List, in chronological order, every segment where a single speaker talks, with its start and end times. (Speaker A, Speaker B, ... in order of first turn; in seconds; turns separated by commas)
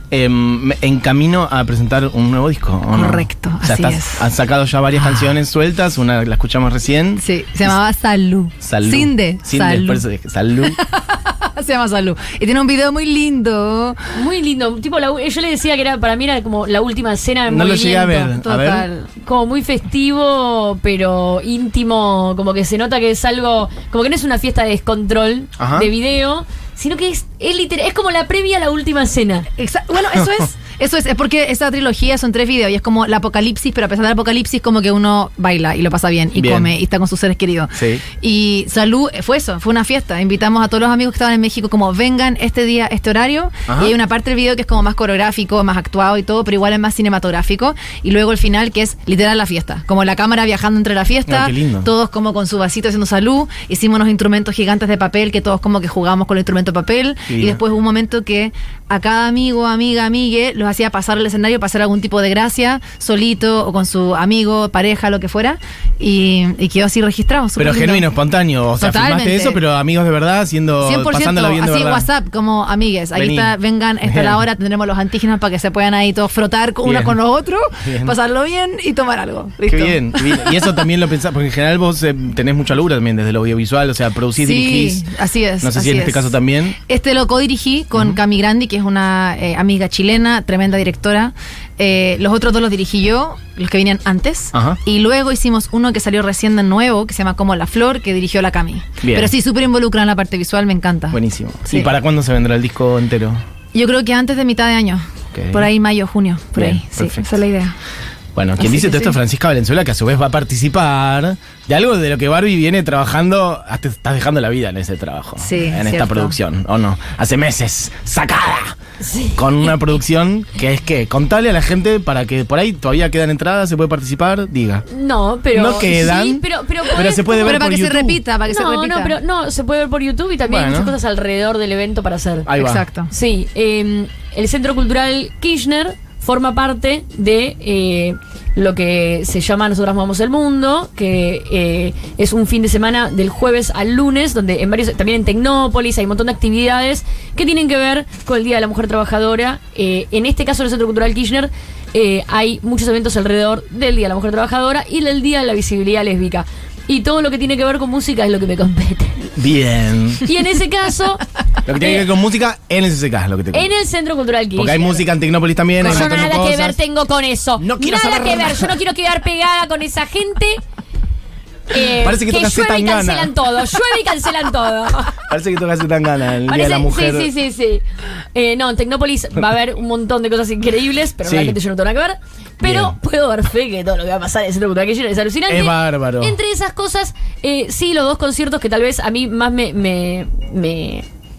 Speaker A: 0.1-7.7, Speaker B: 2.9-4.3, Speaker B: 5.0-5.3, Speaker B: 7.2-10.0, Speaker A: 8.6-10.8, Speaker B: 10.6-14.0, Speaker C: 14.1-18.3, Speaker A: 17.5-18.9, Speaker B: 18.2-19.1, Speaker C: 19.2-29.5, Speaker A: 25.6-25.9, Speaker B: 29.6-68.1, Speaker A: 36.4-36.7, Speaker A: 37.8-38.0, Speaker A: 43.7-43.9, Speaker A: 51.2-51.9, Speaker A: 57.3-57.6, Speaker A: 67.6-72.1, Speaker B: 68.8-69.6, Speaker B: 70.8-80.7, Speaker A: 73.1-74.4, Speaker A: 76.8-77.2, Speaker A: 77.8-78.2, Speaker A: 79.7-85.0, Speaker B: 84.4-86.3, Speaker A: 85.6-86.8, Speaker B: 86.9-101.9, Speaker A: 87.9-88.2, Speaker A: 94.5-94.8, Speaker A: 99.0-99.3, Speaker A: 101.1-103.4, Speaker B: 103.7-107.8, Speaker A: 105.3-105.7, Speaker A: 106.6-107.2, Speaker A: 108.3-118.8, Speaker B: 108.6-109.2, Speaker B: 115.4-116.4, Speaker C: 119.0-119.7, Speaker A: 119.4-124.8, Speaker C: 124.9-127.6, Speaker A: 125.5-128.2, Speaker B: 127.3-129.2, Speaker C: 128.5-132.5, Speaker A: 130.5-130.9, Speaker A: 132.5-132.8, Speaker B: 132.6-133.1, Speaker C: 133.1-159.3, Speaker A: 159.2-160.2, Speaker C: 160.2-162.1, Speaker A: 161.7-163.7, Speaker C: 163.5-165.1, Speaker A: 164.6-166.8, Speaker C: 165.8-170.6, Speaker A: 167.6-168.8, Speaker C: 171.7-175.2, Speaker A: 171.8-173.4, Speaker A: 175.2-177.3, Speaker C: 176.5-177.8, Speaker C: 178.3-191.1, Speaker A: 181.2-181.6, Speaker A: 182.6-183.0, Speaker A: 185.5-186.4